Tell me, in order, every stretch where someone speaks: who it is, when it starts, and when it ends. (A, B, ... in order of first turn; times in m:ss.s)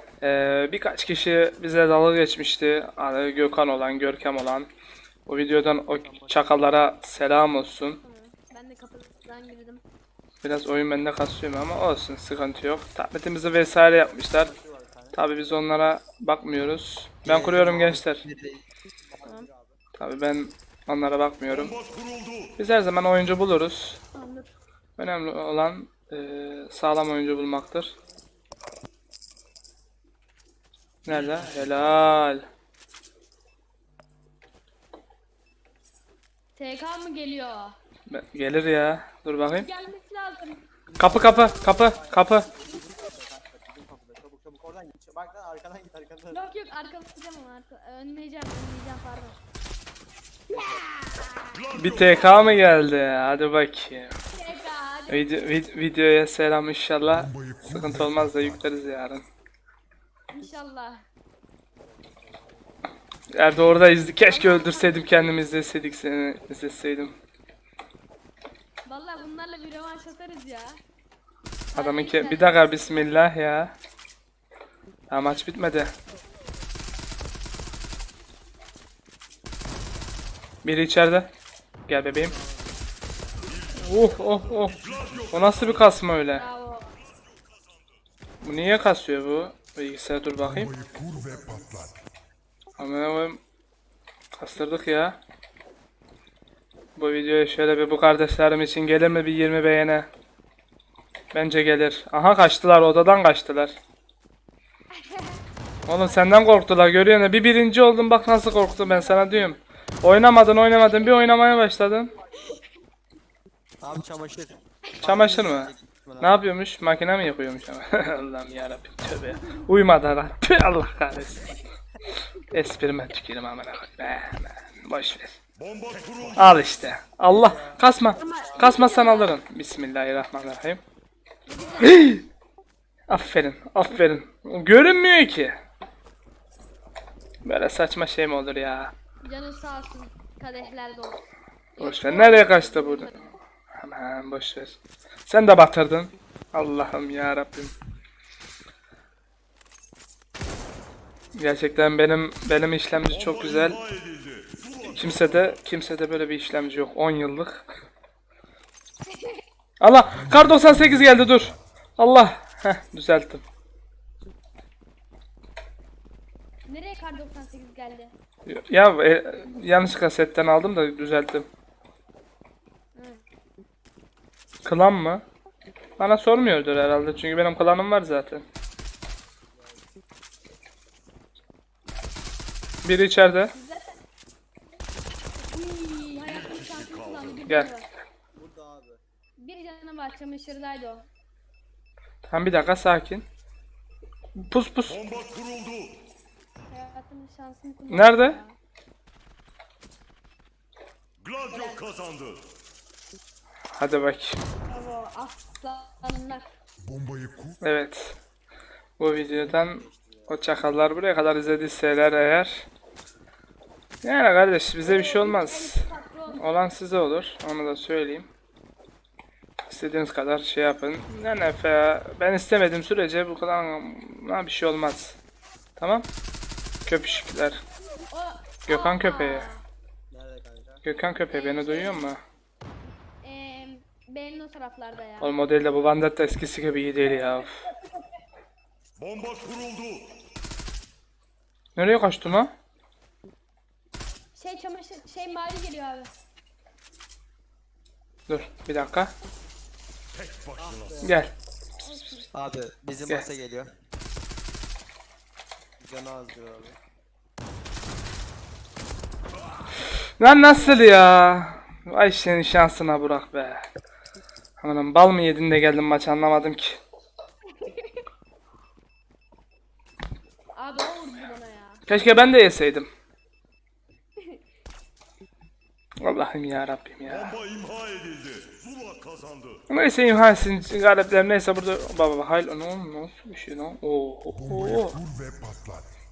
0:00.2-0:04.7 A
0:05.3-0:08.0 A
0:06.0-0:06.7 B
0:08.0-0:09.8 C
0:10.4-0:14.5 A
0:14.0-0:15.2 B
0:15.1-0:18.2 A
0:17.2-0:19.8 B
0:20.0-0:21.8 A
0:21.8-0:22.5 D
0:22.6-0:24.0 A
0:24.1-0:24.5 C
0:25.0-0:27.9 A
0:31.0-0:32.4 A
0:36.6-0:37.8 C
0:38.1-0:39.7 A
0:39.5-0:40.6 C
0:40.9-0:46.5 B
0:41.0-0:42.5 A
0:41.3-0:41.5 C
0:46.3-0:49.4 C
0:50.6-0:51.5 C
0:51.5-0:52.3 D
0:51.7-0:54.1 A
0:54.3-0:55.3 C
0:55.1-0:59.2 A
0:57.1-0:58.6 E
1:00.3-1:01.0 C
1:01.8-1:02.8 B
1:03.3-1:07.2 A
1:04.2-1:05.2 C
1:08.8-1:10.8 C
1:11.7-1:13.1 C
1:11.7-1:13.7 A
1:15.1-1:15.9 A
1:20.6-1:21.3 A
1:21.9-1:22.3 A
1:22.1-1:22.9 B
1:23.6-1:25.8 D
1:23.8-1:26.4 A
1:26.3-1:27.0 C
1:28.4-1:30.7 A
1:30.4-1:32.0 E
1:30.7-1:31.7 B
1:32.8-1:33.4 A
1:34.4-1:35.2 A
1:37.0-1:40.1 A
1:41.3-1:43.8 A
1:44.9-1:45.4 C
1:45.8-1:52.1 A
1:46.0-1:46.5 C
1:48.7-1:49.5 C
1:53.8-1:56.4 B
1:55.0-2:01.5 A
2:02.5-2:05.4 A
2:05.6-2:06.4 D
2:06.3-2:10.8 A
2:07.3-2:07.8 B
2:08.1-2:09.4 C
2:11.5-2:12.2 C
2:11.8-2:12.2 A
2:13.1-2:15.6 A
2:17.4-2:18.9 A
2:19.2-2:21.2 C
2:21.8-2:23.3 C
2:21.8-2:27.7 A
2:31.4-2:33.8 A
2:33.3-2:35.1 D
2:34.8-2:37.6 A
2:39.1-2:39.4 C
2:39.8-2:43.4 A
2:40.1-2:41.6 E
2:46.6-2:48.1 C
2:48.4-2:51.4 A
2:52.9-2:53.2 C
2:54.6-2:55.2 A
2:56.0-2:58.4 A
2:59.5-2:59.8 B
3:02.8-3:03.5 A
3:03.5-3:04.0 C
3:05.4-3:07.9 C
3:08.3-3:09.0 B
3:09.4-3:11.0 C
3:12.2-3:13.2 A
3:14.4-3:15.0 A
3:15.0-3:15.9 D
3:16.7-3:18.5 C
3:17.9-3:18.4 A
3:21.2-3:22.4 D
3:21.4-3:21.8 C
3:23.7-3:24.4 A
3:24.7-3:26.4 C
3:26.8-3:27.6 E
3:27.6-3:28.2 A
3:29.0-3:32.7 A
3:29.0-3:30.4 B
3:34.0-3:38.3 A
3:34.8-3:36.5 C
3:39.7-3:45.2 A
3:45.8-3:46.1 A
3:46.8-3:47.6 A
3:48.1-3:49.6 C
3:48.7-3:49.5 A
3:50.1-3:50.8 B
3:50.8-3:52.2 A
3:51.3-3:52.1 C
3:53.2-3:55.4 C
3:55.2-3:57.6 A
3:57.1-3:58.2 C
3:59.0-4:00.1 D
4:01.8-4:02.5 A
4:04.4-4:06.1 C
4:08.3-4:09.1 A
4:10.2-4:10.8 D
4:10.6-4:11.2 B
4:11.0-4:11.3 A
4:11.8-4:12.3 C
4:12.3-4:13.7 B
4:15.8-4:16.8 B
4:20.2-4:23.7 A
4:24.6-4:26.8 A
4:27.6-4:28.0 C
4:30.5-4:31.8 C
4:31.9-4:32.9 A
4:34.2-4:34.4 C
4:36.0-4:37.4 A
4:37.2-4:39.6 D
4:39.7-4:45.0 A
4:44.3-4:45.9 E